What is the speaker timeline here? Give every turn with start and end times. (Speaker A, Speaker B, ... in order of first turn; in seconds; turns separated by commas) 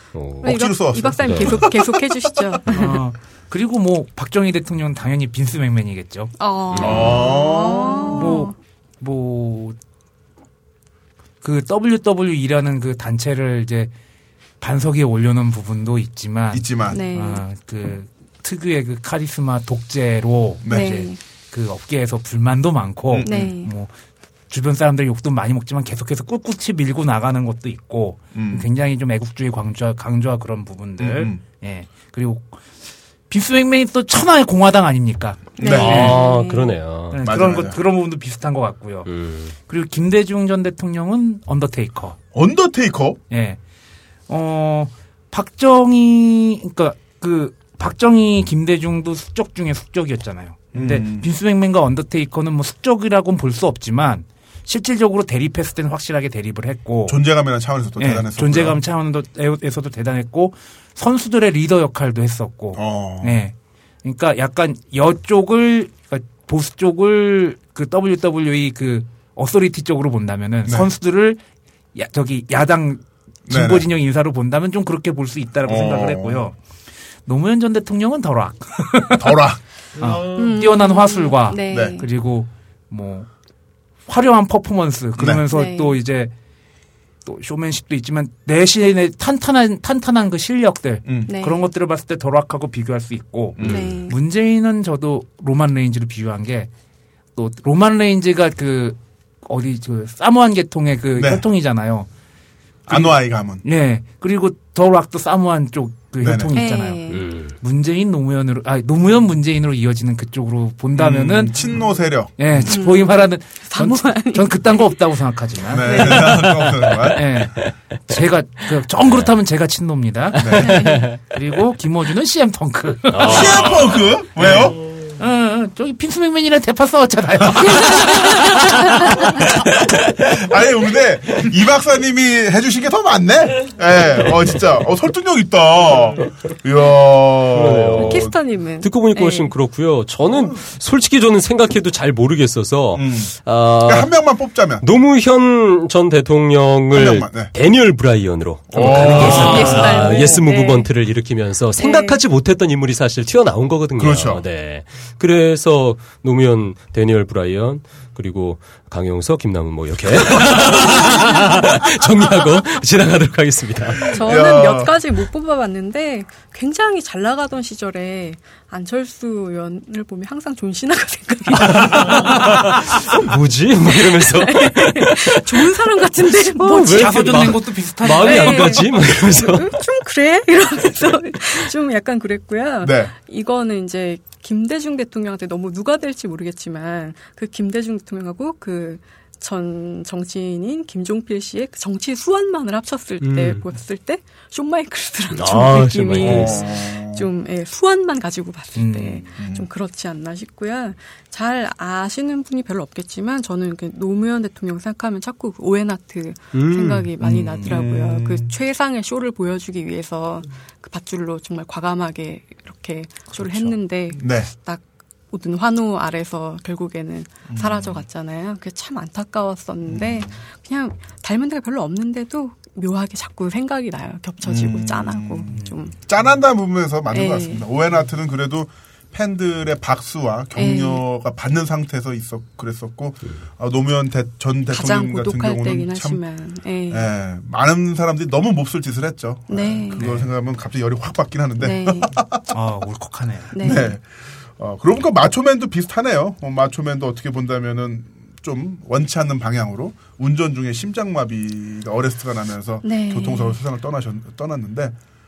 Speaker A: 0.1-0.6, Speaker B: 0.4-3.0, Speaker C: 0.4-2.4, Speaker A: 1.2-1.6, Speaker D: 2.7-6.3, Speaker B: 6.4-8.5, Speaker A: 6.7-7.3, Speaker C: 6.8-8.4, Speaker D: 8.1-9.8, Speaker D: 11.4-13.9, Speaker D: 14.6-23.9, Speaker C: 16.5-17.0, Speaker B: 16.9-17.4, Speaker C: 20.6-21.0, Speaker B: 20.7-21.2, Speaker C: 23.1-23.5, Speaker B: 23.2-23.7, Speaker D: 24.5-32.6, Speaker C: 28.4-28.7, Speaker C: 31.0-31.4, Speaker D: 33.3-36.2, Speaker B: 35.6-36.8, Speaker C: 35.6-36.1, Speaker A: 35.7-37.2, Speaker D: 37.1-42.2, Speaker C: 37.2-37.8, Speaker A: 39.1-39.5, Speaker C: 42.3-43.2, Speaker D: 43.3-43.6, Speaker D: 44.3-57.2, Speaker C: 50.7-51.3, Speaker C: 57.1-58.8, Speaker D: 58.0-71.4, Speaker C: 62.8-63.4, Speaker C: 70.7-70.9, Speaker D: 72.0-76.6, Speaker C: 73.5-73.9, Speaker C: 75.7-76.5, Speaker D: 77.3-79.4, Speaker C: 79.2-79.6, Speaker D: 80.0-83.3, Speaker B: 80.3-82.0, Speaker C: 81.7-82.0, Speaker D: 84.1-86.3, Speaker C: 85.2-85.4, Speaker B: 85.5-86.0, Speaker D: 87.2-96.7, Speaker C: 91.1-91.3, Speaker B: 91.3-91.6, Speaker C: 93.6-94.0, Speaker B: 93.6-94.2, Speaker D: 97.4-102.1, Speaker C: 101.2-101.5, Speaker D: 102.9-111.6, Speaker C: 102.9-103.6, Speaker C: 106.2-106.5, Speaker B: 106.5-107.3, Speaker A: 107.1-107.5, Speaker C: 111.0-112.8, Speaker D: 112.4-116.4, Speaker B: 112.7-115.0, Speaker C: 115.7-117.3, Speaker B: 115.8-116.4, Speaker A: 116.4-117.7, Speaker D: 117.2-123.8, Speaker C: 120.4-120.9, Speaker A: 120.4-121.2, Speaker B: 120.6-121.1, Speaker A: 123.1-123.9, Speaker C: 123.2-124.8, Speaker D: 124.4-129.5, Speaker C: 130.1-138.3, Speaker A: 137.5-144.2, Speaker B: 138.0-139.5, Speaker C: 140.3-140.6, Speaker C: 142.9-144.8, Speaker A: 144.8-164.2, Speaker C: 146.9-147.5, Speaker C: 148.7-150.4, Speaker B: 148.9-150.9, Speaker D: 149.1-150.1, Speaker B: 151.8-152.2, Speaker C: 154.0-154.5, Speaker B: 164.1-172.3, Speaker C: 164.1-165.0, Speaker A: 171.6-179.7, Speaker D: 171.8-172.3, Speaker B: 173.9-177.6, Speaker D: 176.8-179.1, Speaker B: 178.1-225.9, Speaker C: 182.8-183.1, Speaker A: 193.2-193.7, Speaker A: 195.3-196.7, Speaker C: 196.2-197.3, Speaker D: 198.8-199.3, Speaker C: 199.4-199.7, Speaker A: 206.5-207.1, Speaker C: 207.2-208.5, Speaker D: 207.2-207.7, Speaker A: 213.3-213.7, Speaker C: 214.2-214.5, Speaker C: 217.5-218.1, Speaker C: 219.9-220.4, Speaker C: 224.4-236.2, Speaker B: 227.1-227.7, Speaker B: 230.6-231.0, Speaker B: 234.7-237.1, Speaker C: 236.9-242.6, Speaker B: 239.5-240.0, Speaker D: 239.9-240.3, Speaker B: 241.6-242.2, Speaker D: 242.5-243.6, Speaker B: 243.5-244.0, Speaker C: 243.6-244.1, Speaker C: 244.6-254.9, Speaker B: 252.8-253.6